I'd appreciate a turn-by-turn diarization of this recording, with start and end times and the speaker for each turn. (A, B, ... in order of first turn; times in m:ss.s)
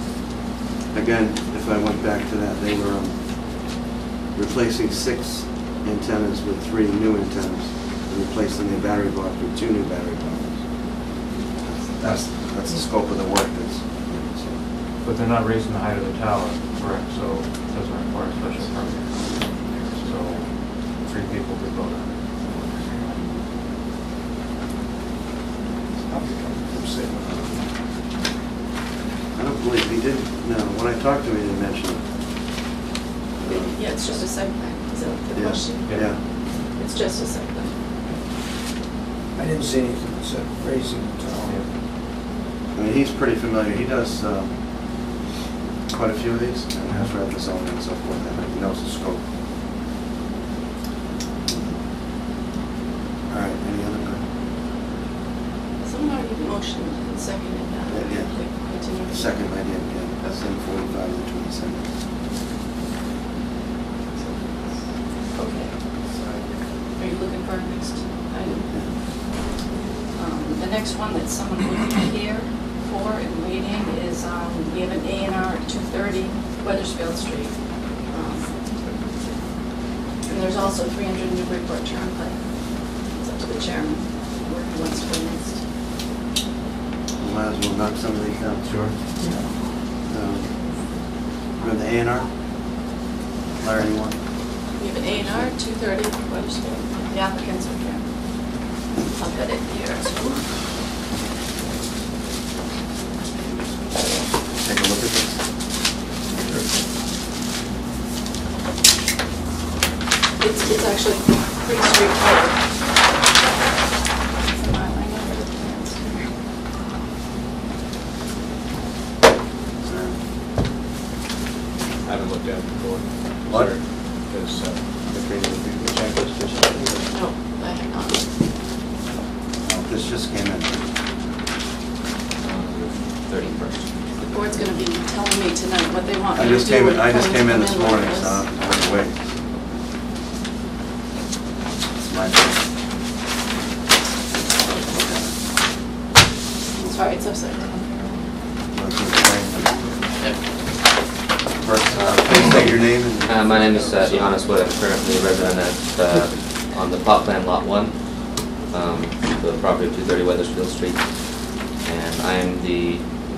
0:00.9-0:03.8 A
0:04.3-0:11.0 A
0:11.6-0:14.6 A
0:12.0-0:12.3 B
0:15.0-0:22.2 B
0:26.1-0:27.7 C
0:29.3-0:32.1 A
0:33.4-0:34.2 A
0:33.5-0:37.7 D
0:35.3-0:36.2 A
0:39.4-0:41.6 C
0:42.7-0:44.6 A
0:45.9-0:49.2 A
0:51.5-0:51.8 A
0:53.3-0:54.3 A
0:55.8-0:59.2 D
0:57.9-1:01.9 A
1:05.4-1:05.8 D
1:07.0-1:08.7 D
1:08.7-1:08.9 A
1:10.2-1:17.6 D
1:18.1-1:18.5 D
1:20.3-1:25.6 D
1:27.2-1:28.7 A
1:28.6-1:29.0 B
1:30.0-1:30.6 A
1:31.6-1:32.3 A
1:33.6-1:35.5 A
1:34.8-1:38.0 D
1:39.1-1:40.4 D
1:44.5-1:45.4 A
1:50.4-1:52.6 D
1:54.5-1:56.3 D
1:59.8-2:00.2 A
2:02.1-2:03.0 E
2:03.5-2:03.7 A
2:03.6-2:04.7 E
2:05.9-2:06.4 E
2:07.1-2:08.3 D
2:09.6-2:10.8 A
2:12.4-2:14.6 F
2:14.3-2:18.5 D
2:16.3-2:19.4 A
2:22.0-2:22.6 A
2:24.9-2:25.3 A
2:26.9-2:27.8 D
2:28.7-2:29.9 A
2:31.6-2:34.4 A
2:32.0-2:32.7 F
2:33.2-2:38.0 F
2:38.7-2:41.1 F
2:41.8-2:43.0 F